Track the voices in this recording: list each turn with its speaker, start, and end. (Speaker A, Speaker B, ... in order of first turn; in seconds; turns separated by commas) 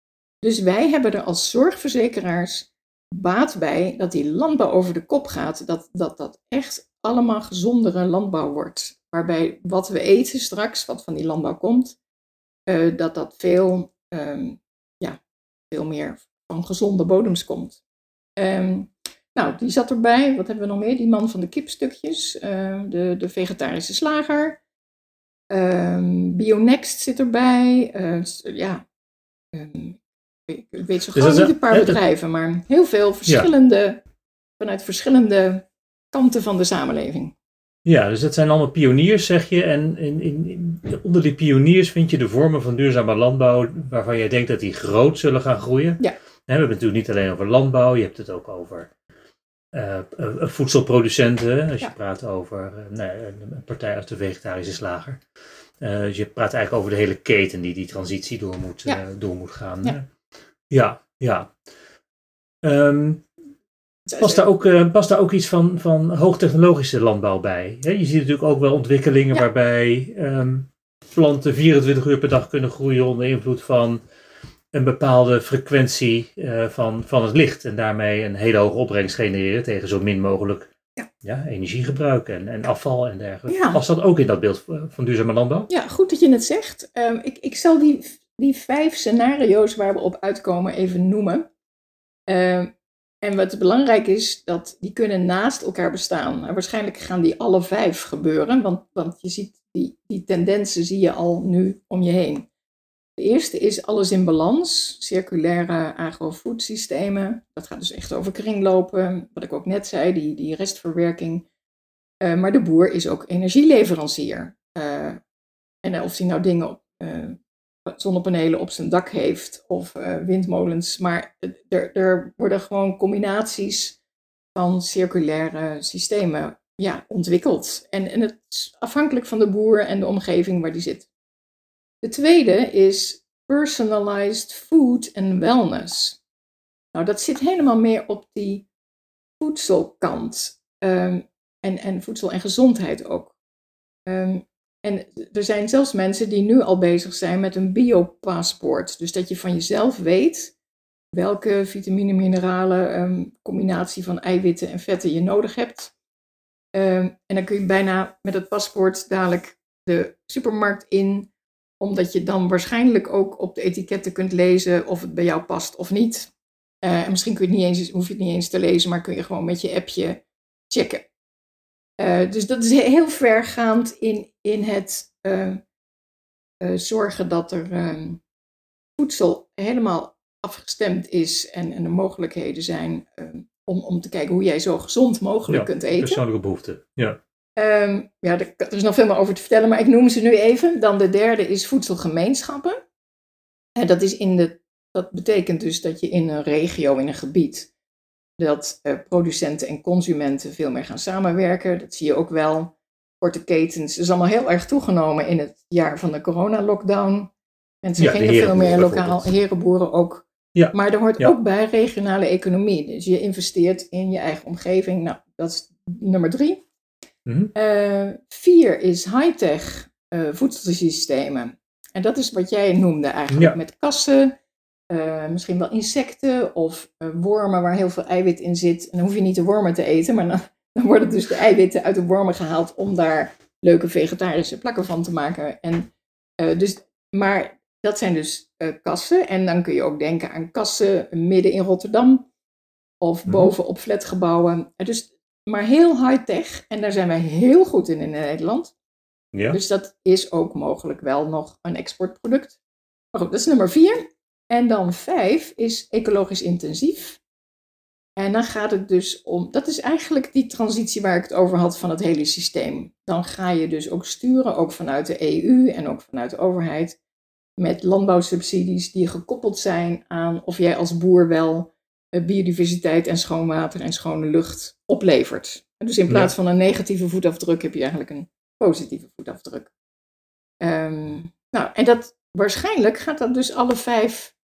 Speaker A: 0.4-12.0, Speaker A: 12.7-15.2, Speaker A: 15.7-17.8, Speaker A: 18.4-24.6, Speaker A: 25.5-28.8, Speaker A: 29.5-34.0, Speaker B: 31.1-32.0, Speaker A: 34.6-37.3, Speaker B: 37.8-48.9, Speaker B: 49.7-55.2, Speaker B: 55.8-60.1, Speaker B: 60.7-61.5, Speaker B: 62.6-63.2, Speaker A: 64.0-64.4, Speaker B: 64.2-74.0, Speaker B: 74.7-85.7, Speaker A: 83.5-83.8, Speaker A: 85.7-91.5, Speaker A: 92.3-92.7, Speaker A: 93.2-102.5, Speaker A: 103.2-111.5, Speaker A: 112.2-115.2, Speaker A: 115.8-124.0, Speaker A: 124.5-131.1, Speaker A: 132.0-136.2, Speaker A: 136.9-138.7, Speaker A: 139.4-143.3, Speaker A: 144.1-150.5, Speaker A: 151.1-155.9, Speaker A: 156.7-166.3, Speaker A: 166.8-171.1, Speaker A: 172.0-175.6, Speaker A: 176.6-178.2, Speaker A: 179.0-186.2, Speaker B: 185.5-187.2, Speaker A: 187.6-192.8, Speaker A: 193.8-197.7, Speaker A: 198.4-207.3, Speaker A: 207.8-216.6, Speaker B: 208.0-209.3, Speaker B: 210.5-211.3, Speaker B: 217.2-217.5, Speaker A: 217.5-224.3, Speaker B: 223.3-223.6, Speaker A: 224.9-242.3, Speaker A: 243.0-248.7, Speaker B: 243.3-243.5, Speaker B: 249.3-249.6, Speaker A: 249.5-252.6, Speaker A: 253.1-257.2, Speaker A: 258.2-267.0, Speaker A: 267.6-279.7, Speaker A: 280.6-284.3